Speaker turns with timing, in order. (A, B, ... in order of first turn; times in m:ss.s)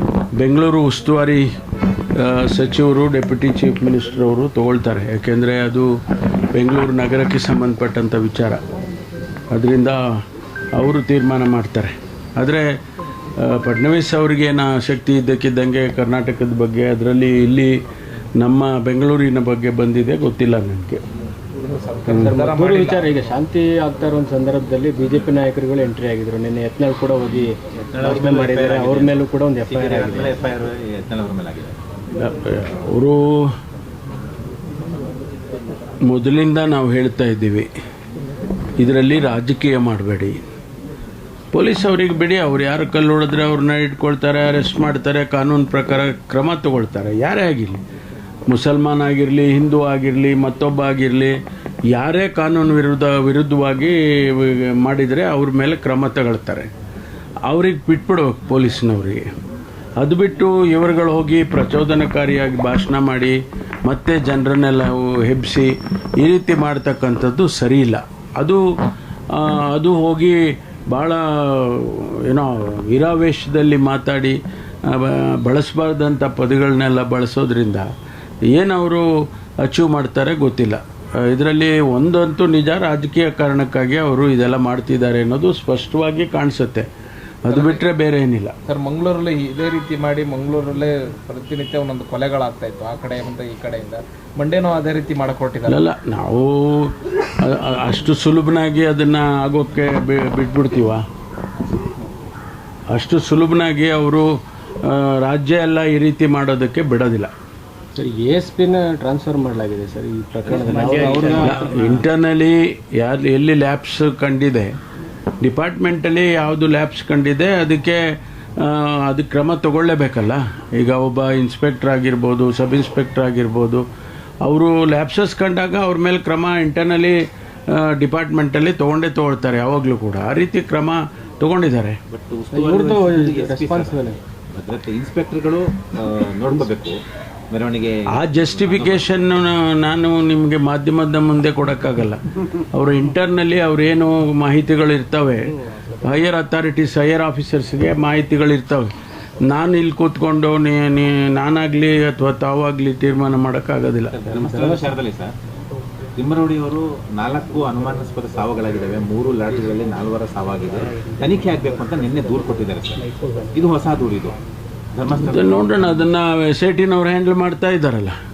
0:00.4-0:01.4 A
0:02.1-0:05.9 A
0:06.5-0:08.6 A
0:09.5-0:10.0 A
0:10.7-0:12.7 A
0:13.4-0:17.7 A
0:18.4-0:21.0 A
0:21.6-0:23.1 B
0:22.1-0:30.3 C
0:27.7-0:31.7 D
0:32.2-0:33.5 A
0:36.0-0:37.7 A
0:38.8-0:40.4 A
0:41.5-0:47.8 A
0:48.5-0:51.4 A
0:51.9-0:56.7 A
0:57.5-0:59.3 A
1:00.0-1:08.6 A
1:09.3-1:17.9 A
1:18.5-1:19.1 A
1:19.6-1:26.9 A
1:27.4-1:28.5 A
1:27.5-1:27.8 B
1:28.6-1:35.8 B
1:35.7-1:41.0 A
1:42.9-1:44.3 A
1:44.8-1:47.3 A
1:47.9-1:51.6 C
1:50.5-1:51.9 D
1:51.0-1:51.3 B
1:51.4-1:54.7 A
1:55.4-1:58.0 A
1:58.6-2:03.8 A
2:04.4-2:07.2 A
2:07.7-2:12.0 A
2:12.1-2:14.0 D
2:12.5-2:14.2 C
2:14.5-2:17.0 D
2:17.5-2:19.1 D
2:18.1-2:22.2 A
2:22.7-2:25.5 A
2:26.0-2:28.9 A
2:29.5-2:34.1 A
2:34.1-2:35.3 D
2:34.3-2:34.8 C
2:36.2-2:44.4 D
2:44.9-2:46.0 D
2:45.2-2:48.2 A